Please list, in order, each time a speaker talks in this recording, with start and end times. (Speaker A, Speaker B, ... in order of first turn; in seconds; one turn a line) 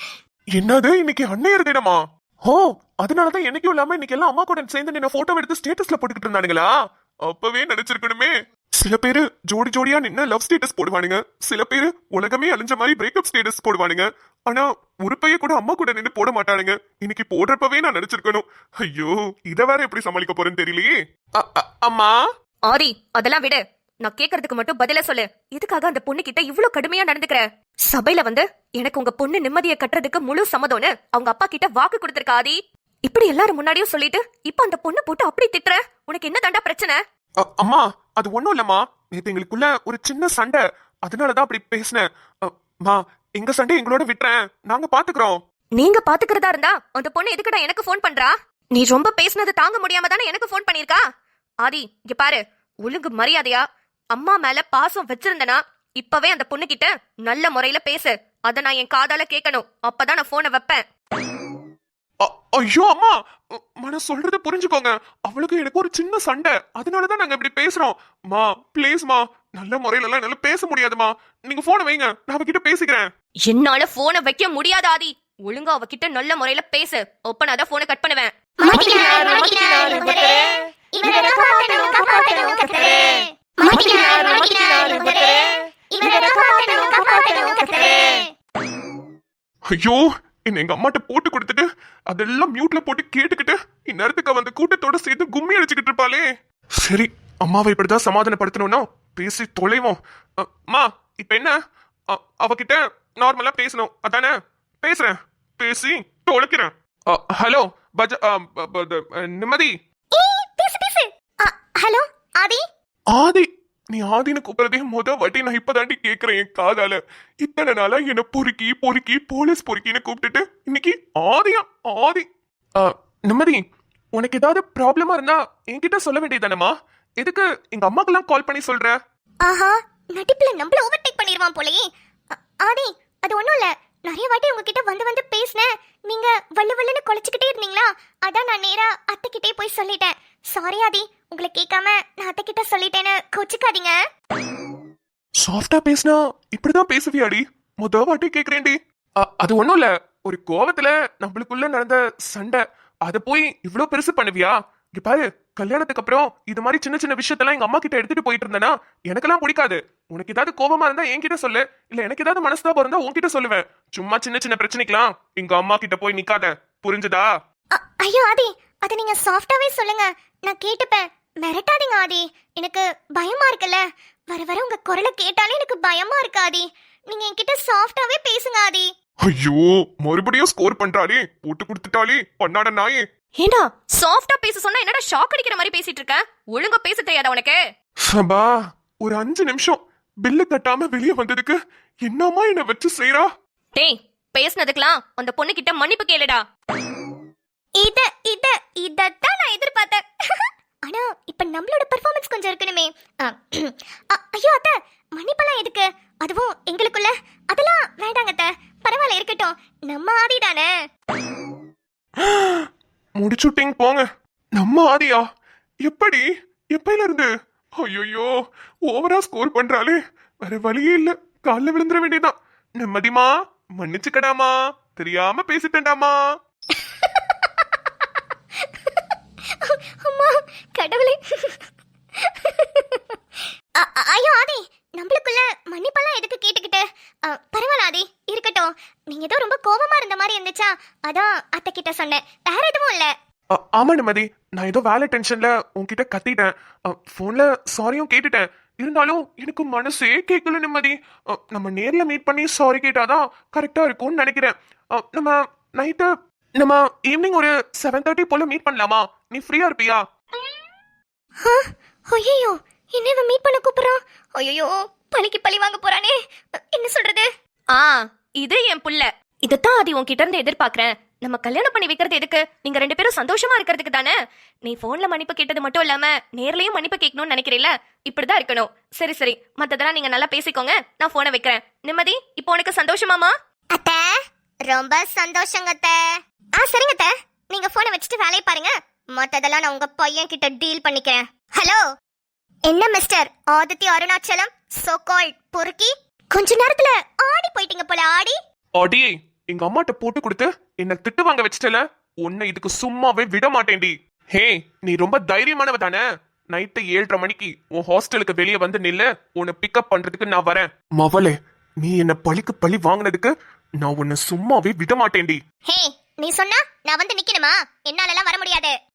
Speaker A: 0.5-6.7
Speaker A: 7.2-22.1
Speaker B: 22.7-37.0
Speaker A: 37.4-45.4
Speaker B: 45.8-51.0
Speaker B: 51.6-60.8
Speaker A: 62.2-73.1
Speaker B: 73.4-78.3
Speaker C: 78.6-85.4
Speaker C: 85.9-88.3
Speaker A: 89.7-96.2
Speaker A: 96.8-101.5
Speaker A: 102.1-109.7
Speaker C: 110.1-112.6
Speaker A: 113.1-122.2
Speaker A: 122.8-123.6
Speaker A: 124.1-128.9
Speaker C: 129.4-144.0
Speaker A: 145.4-167.3
Speaker C: 167.7-178.9
Speaker A: 179.2-183.0
Speaker B: 183.4-187.6
Speaker A: 188.0-188.5
Speaker A: 189.0-193.3
Speaker B: 193.7-196.4
Speaker C: 197.8-200.0
Speaker C: 200.8-210.7
Speaker A: 212.2-212.7
Speaker A: 213.2-214.0
Speaker A: 214.6-215.2
Speaker A: 215.8-217.3
Speaker A: 217.8-218.3
Speaker A: 218.9-226.2
Speaker C: 226.8-227.5
Speaker C: 229.6-231.6
Speaker C: 232.3-233.0
Speaker C: 233.8-243.1
Speaker A: 243.5-260.0
Speaker C: 261.4-266.2
Speaker C: 266.7-267.3
Speaker B: 267.7-274.1
Speaker B: 274.6-283.3
Speaker C: 283.7-286.0
Speaker C: 286.6-291.8
Speaker C: 292.7-298.3
Speaker A: 298.8-315.4
Speaker C: 315.7-318.7